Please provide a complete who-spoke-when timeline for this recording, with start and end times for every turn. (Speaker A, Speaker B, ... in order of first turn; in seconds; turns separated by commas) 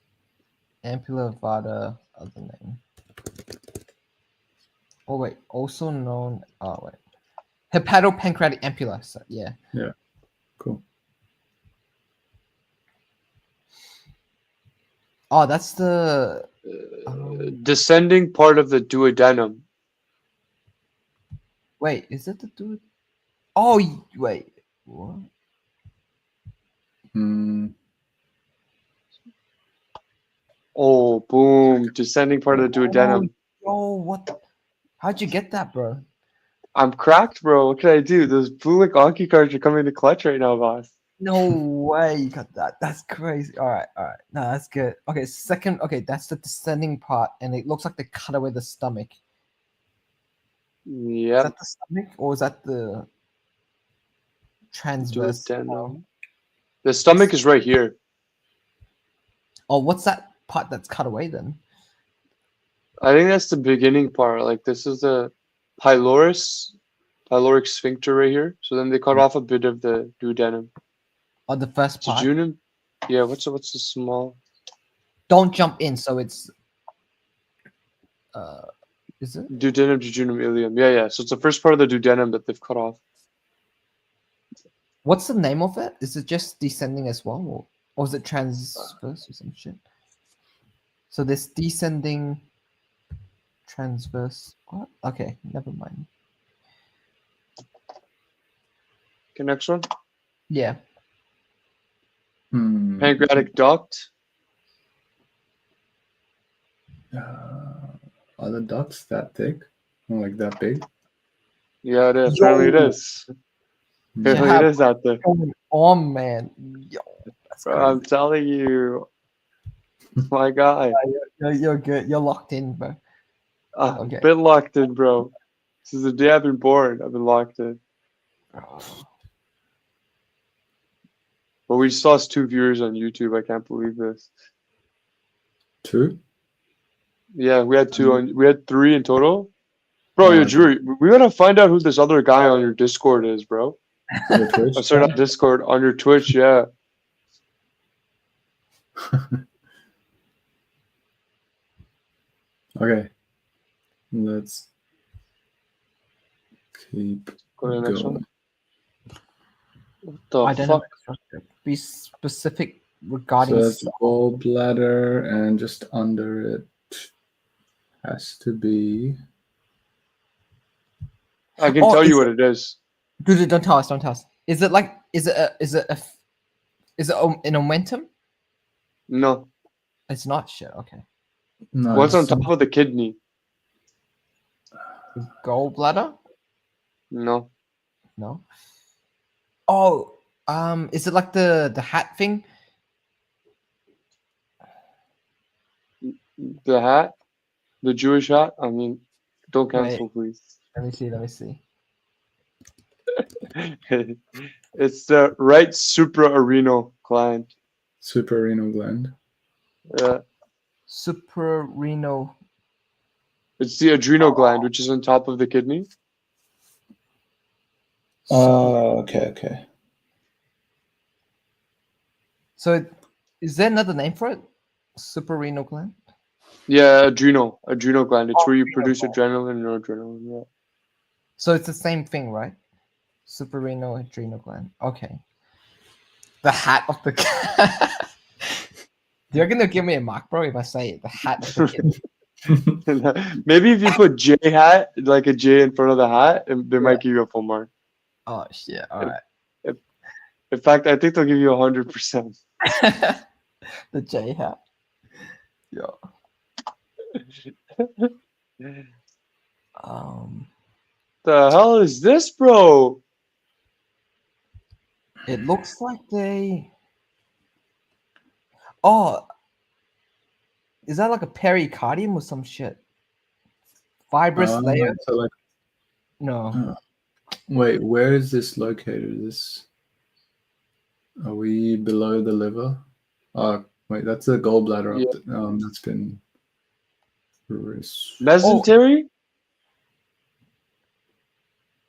Speaker A: 0.8-2.8, Speaker A: 5.1-7.0, Speaker A: 7.7-9.6, Speaker A: 15.3-16.5, Speaker B: 17.0-19.6, Speaker A: 17.1-17.6, Speaker A: 21.8-22.8, Speaker A: 23.6-25.3, Speaker C: 27.1-27.7, Speaker B: 30.8-33.3, Speaker A: 32.5-34.4, Speaker A: 35.0-36.0, Speaker B: 36.8-40.9, Speaker A: 41.2-49.1, Speaker B: 50.9-51.5, Speaker A: 51.4-53.1, Speaker A: 54.7-55.9, Speaker B: 55.0-56.0, Speaker B: 56.8-58.0, Speaker A: 59.7-61.6, Speaker B: 63.0-66.7, Speaker B: 67.3-70.7, Speaker A: 71.5-72.3, Speaker B: 72.0-74.4, Speaker A: 75.3-76.5, Speaker A: 78.3-78.7, Speaker A: 79.2-79.5, Speaker B: 79.5-83.0, Speaker A: 85.0-89.8, Speaker A: 91.1-92.4, Speaker A: 93.7-96.1, Speaker B: 99.4-99.8, Speaker A: 100.5-100.8, Speaker C: 102.5-103.5, Speaker B: 103.0-104.1, Speaker C: 107.1-110.8, Speaker B: 111.8-113.3, Speaker A: 112.3-113.0, Speaker C: 114.2-114.5, Speaker B: 114.2-115.2, Speaker A: 114.3-118.0, Speaker B: 117.7-119.1, Speaker B: 120.3-121.0, Speaker A: 120.9-123.0, Speaker B: 123.8-125.3, Speaker A: 124.0-124.3, Speaker B: 125.9-127.8, Speaker A: 128.6-129.1, Speaker B: 131.7-134.3, Speaker C: 135.8-136.2, Speaker B: 137.4-139.5, Speaker C: 137.9-138.2, Speaker B: 140.2-143.8, Speaker C: 140.2-140.7, Speaker C: 144.3-145.1, Speaker B: 144.8-146.7, Speaker C: 152.8-153.1, Speaker C: 154.1-154.7, Speaker C: 156.8-158.2, Speaker B: 157.6-158.2, Speaker B: 160.2-160.8, Speaker A: 160.4-164.4, Speaker C: 163.4-167.1, Speaker C: 168.0-169.2, Speaker B: 171.6-172.8, Speaker A: 171.6-172.3, Speaker A: 173.2-176.1, Speaker A: 177.0-178.1, Speaker B: 179.1-179.5, Speaker A: 180.1-181.0, Speaker C: 181.8-182.5, Speaker B: 181.9-183.2, Speaker A: 182.1-182.5, Speaker A: 185.2-186.2, Speaker B: 187.1-187.5, Speaker A: 188.2-188.4, Speaker A: 189.7-192.4, Speaker B: 196.0-197.1, Speaker B: 197.8-200.4, Speaker A: 199.7-200.0, Speaker A: 200.7-201.6, Speaker B: 203.6-204.2, Speaker B: 204.8-207.5, Speaker C: 208.0-209.1, Speaker B: 209.9-210.2, Speaker A: 210.9-212.4, Speaker B: 213.6-215.9, Speaker A: 218.3-218.9, Speaker C: 218.3-219.6, Speaker A: 222.6-222.9, Speaker A: 223.4-224.4, Speaker A: 225.0-225.9, Speaker B: 226.7-230.4, Speaker A: 228.4-229.2, Speaker A: 231.4-232.6, Speaker A: 233.3-235.2, Speaker A: 236.4-238.0, Speaker A: 239.3-241.9, Speaker B: 242.8-247.7, Speaker A: 248.3-249.2, Speaker B: 250.5-252.3, Speaker A: 252.7-253.2, Speaker A: 253.9-254.6, Speaker B: 257.8-258.1, Speaker A: 259.8-260.5, Speaker B: 261.2-263.0, Speaker A: 265.3-266.7, Speaker A: 268.8-269.2, Speaker A: 270.9-272.8, Speaker A: 274.1-275.0, Speaker C: 274.4-275.3, Speaker A: 276.2-276.6, Speaker C: 277.5-279.7, Speaker C: 281.2-282.8, Speaker C: 283.4-286.2, Speaker C: 287.5-288.2, Speaker B: 288.2-289.1, Speaker A: 288.4-288.7